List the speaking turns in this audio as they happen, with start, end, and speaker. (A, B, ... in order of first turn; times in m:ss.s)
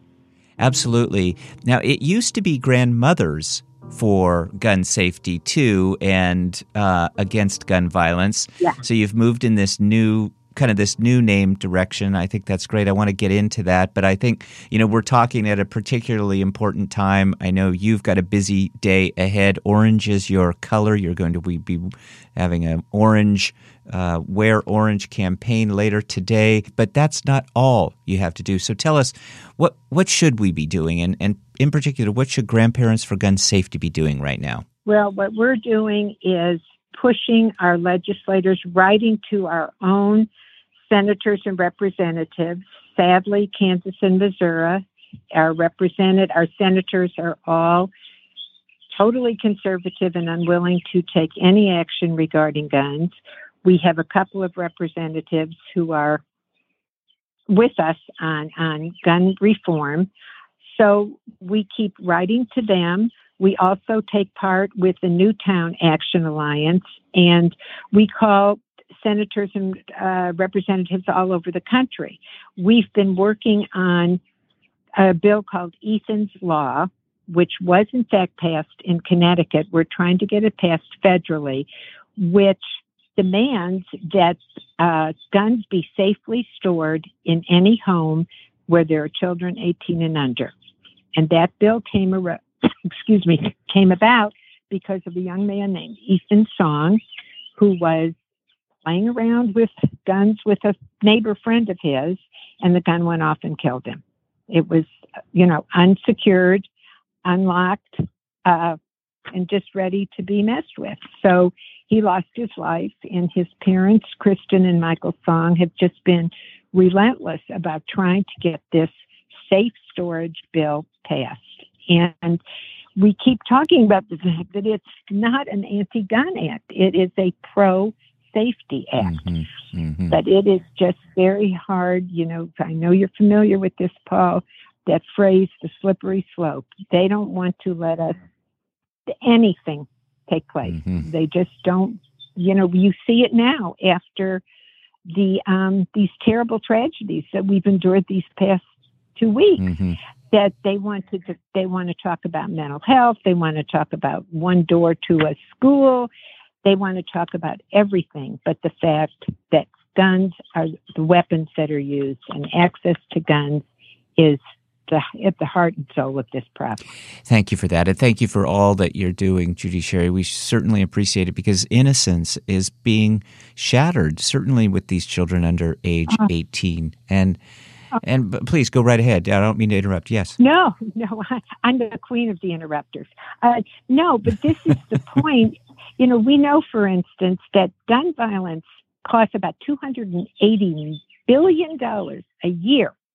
0:00.6-0:34.6 A
0:34.8-0:40.3 B
0:40.9-0:44.8 B
0:45.3-0:47.9 B
0:48.9-0:53.1 B
0:53.6-0:56.2 B
0:57.5-1:00.1 B
1:00.6-1:14.2 B
1:15.0-1:22.6 B
1:23.2-1:30.5 B
1:31.1-1:37.0 B
1:37.6-1:38.1 B
1:38.8-1:46.7 B
1:47.2-1:48.8 B
1:49.3-2:02.4 B
2:03.0-2:09.2 B
2:09.0-2:10.2 A
2:10.1-2:18.2 B
2:19.1-2:24.4 B
2:20.7-2:21.0 A
2:25.1-2:28.6 B
2:29.2-2:29.7 B
2:29.6-2:30.0 A
2:30.3-2:36.1 B
2:36.6-2:43.6 B
2:44.2-2:46.8 B
2:47.3-2:57.4 A
2:58.0-3:00.4 A
3:00.4-3:12.9 B